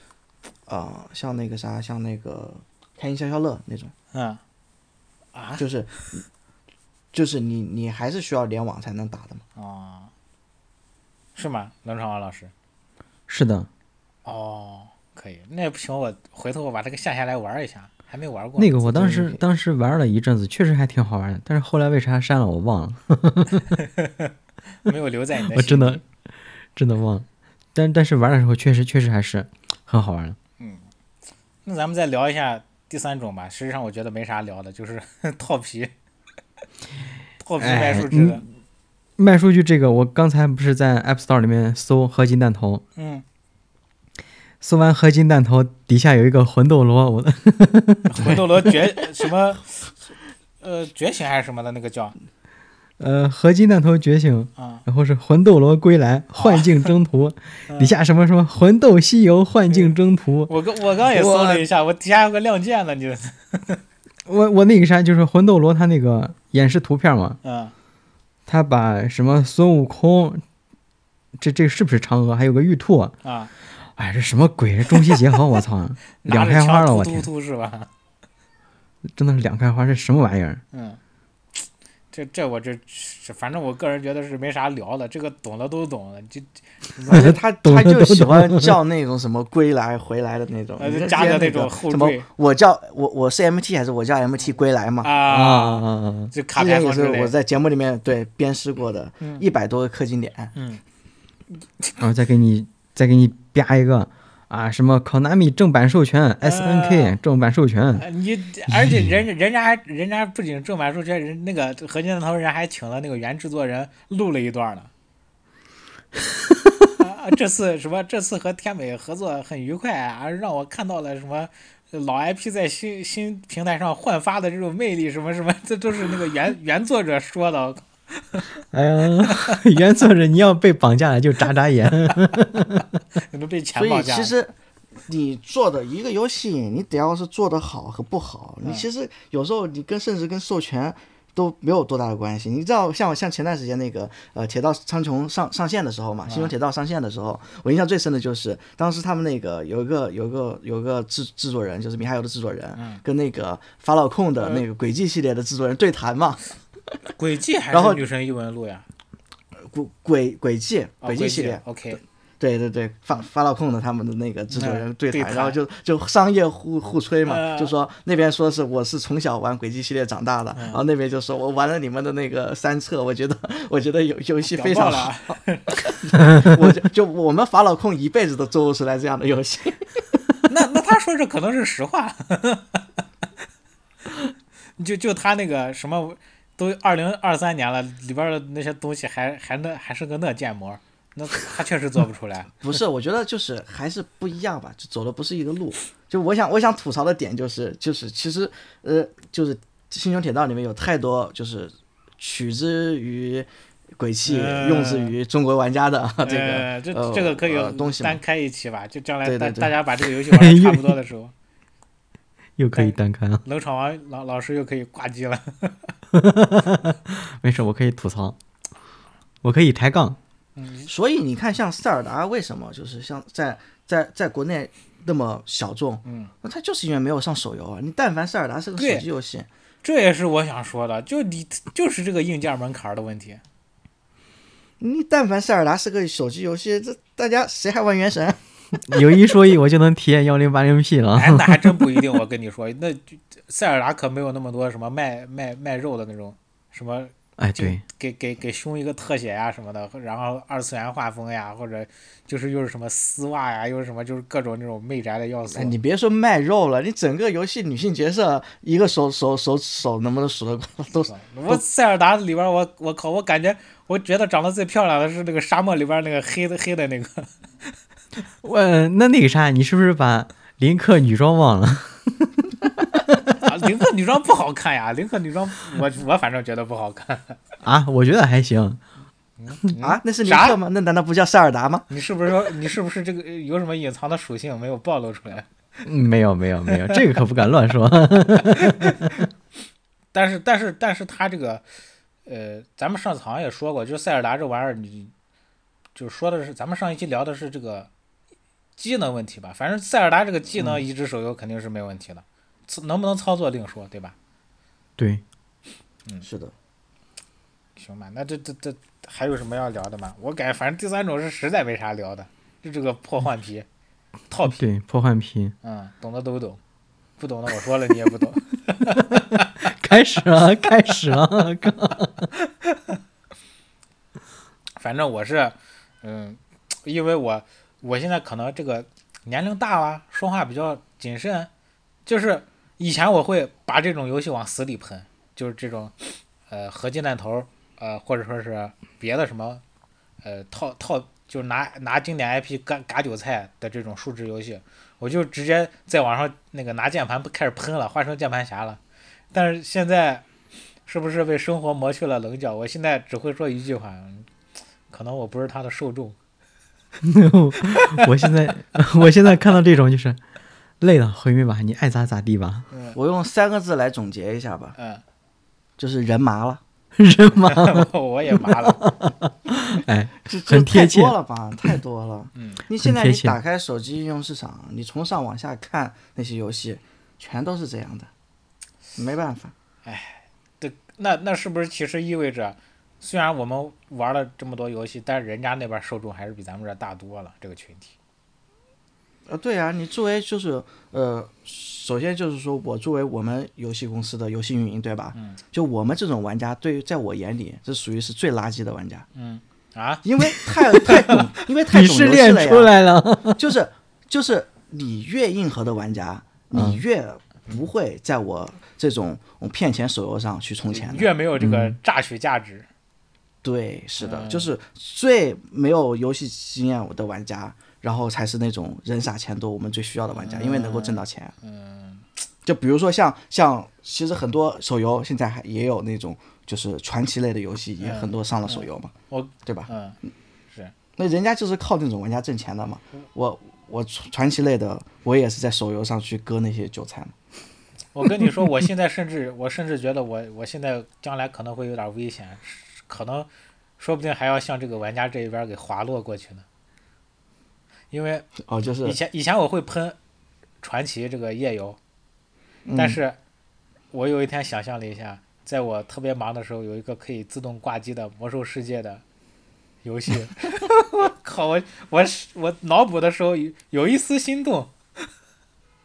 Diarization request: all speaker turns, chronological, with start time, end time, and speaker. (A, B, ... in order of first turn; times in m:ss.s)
0:00.7-0:03.9 A
0:04.1-0:04.4 B
0:05.3-0:06.0 B
0:05.6-0:06.2 A
0:07.1-0:09.4 A
0:09.6-0:10.1 B
0:11.3-0:12.5 B
0:13.3-0:13.7 C
0:14.2-0:19.0 B
0:18.6-0:23.8 C
0:18.9-0:19.4 A
0:23.8-0:24.3 B
0:24.8-0:26.0 B
0:25.5-0:26.0 C
0:26.8-0:30.4 C
0:30.6-0:30.8 B
0:31.6-0:35.9 B
0:37.4-0:38.4 B
0:37.6-0:38.4 C
0:39.2-0:42.8 C
0:43.0-0:43.2 B
0:44.6-0:48.8 C
0:48.1-0:49.9 B
0:50.6-0:52.2 B
0:53.0-1:00.5 C
0:54.6-0:54.8 B
0:56.4-0:56.9 B
0:57.7-0:57.9 B
1:00.5-1:03.8 B
1:01.1-1:01.6 A
1:04.2-1:07.4 C
1:07.4-1:07.7 B
1:08.5-1:10.4 C
1:11.4-1:13.1 C
1:13.2-1:13.5 B
1:13.8-1:17.3 C
1:16.2-1:17.9 B
1:19.1-1:20.6 C
1:20.7-1:21.0 B
1:21.6-1:27.4 B
1:27.1-1:28.8 C
1:27.1-1:35.1 A
1:30.8-1:32.3 B
1:35.0-1:37.3 B
1:35.2-1:36.3 C
1:36.5-1:40.6 A
1:40.5-1:40.8 B
1:42.0-1:48.0 C
1:46.4-1:47.2 B
1:48.0-1:54.9 B
1:48.7-1:49.1 C
1:57.0-2:08.5 B
2:08.7-2:12.9 C
2:09.2-2:09.5 B
2:13.3-2:14.3 B
2:13.7-2:14.5 A
2:15.1-2:36.5 A
2:26.2-2:26.5 B
2:32.8-2:33.0 B
2:37.2-2:38.8 B
2:37.7-2:38.0 A
2:39.7-2:41.8 A
2:41.0-2:42.0 B
2:42.4-3:00.0 A
2:44.5-2:45.6 B
2:47.2-2:47.7 B
2:50.5-2:50.8 B
2:54.4-2:55.8 B
3:00.5-3:02.8 B
3:04.8-3:12.5 B
3:12.6-3:28.2 A
3:24.3-3:25.1 B
3:26.2-3:31.3 B
3:29.2-3:29.8 A
3:30.3-3:31.0 C
3:32.6-3:33.4 C
3:32.7-3:35.9 B
3:36.1-3:38.4 C
3:39.4-3:40.2 C
3:40.6-3:40.9 B
3:40.9-3:49.5 A
3:46.0-3:46.3 B
3:48.8-3:49.0 B
3:49.8-3:53.4 B
3:54.8-3:58.4 A
3:58.9-4:01.9 C
4:01.1-4:15.7 B
4:07.4-4:07.8 C
4:15.5-4:21.6 A
4:21.0-4:27.3 B
4:28.4-4:32.3 C
4:33.0-4:33.4 C
4:33.4-4:37.4 B
4:37.6-4:38.8 C
4:39.4-4:40.6 B
4:39.8-4:41.9 A
4:41.9-4:45.5 B
4:45.8-4:49.3 C
4:46.7-4:47.0 B
4:48.5-4:49.1 B
4:50.1-4:51.6 B
4:52.2-4:55.1 B
4:56.0-4:57.9 B
4:58.8-5:04.1 B
5:05.0-5:05.2 C
5:06.2-5:06.5 A
5:07.8-5:13.6 B
5:14.3-5:14.6 B
5:14.5-5:15.5 C
5:15.6-5:16.6 B
5:17.2-5:19.5 B
5:19.0-5:22.3 C
5:22.5-5:23.0 B
5:24.8-5:31.5 B
5:32.0-5:39.6 B
5:40.2-5:48.8 B
5:49.3-5:50.2 B
5:50.8-5:54.3 B
5:54.9-5:56.2 B
5:57.0-6:00.2 C
5:57.7-5:58.0 B
6:00.8-6:02.7 C
6:02.7-6:03.0 B
6:02.9-6:04.8 A
6:04.8-6:05.0 B
6:05.8-6:06.6 A
6:07.0-6:11.2 C
6:07.4-6:08.8 B
6:10.2-6:18.1 A
6:12.3-6:12.6 B
6:12.7-6:13.4 C
6:18.9-6:19.5 A
6:19.8-6:27.9 B
6:29.3-6:39.1 A
6:39.1-6:41.2 B
6:40.0-6:42.8 A
6:41.7-6:43.5 C
6:43.4-6:51.1 A
6:46.5-6:46.8 C
6:50.7-6:52.7 B
6:51.4-6:51.8 C
6:53.4-7:01.3 A
6:54.0-6:54.5 B
7:00.1-7:02.0 B
7:02.4-7:08.9 A
7:07.8-7:10.0 B
7:09.4-7:09.7 A
7:11.0-7:17.1 A
7:17.9-7:23.3 B
7:23.8-7:26.4 B
7:27.9-7:30.0 B
7:28.4-7:29.0 A
7:30.6-7:31.8 B
7:32.6-7:33.0 A
7:32.8-7:33.2 B
7:33.9-7:39.0 B
7:39.8-7:44.7 B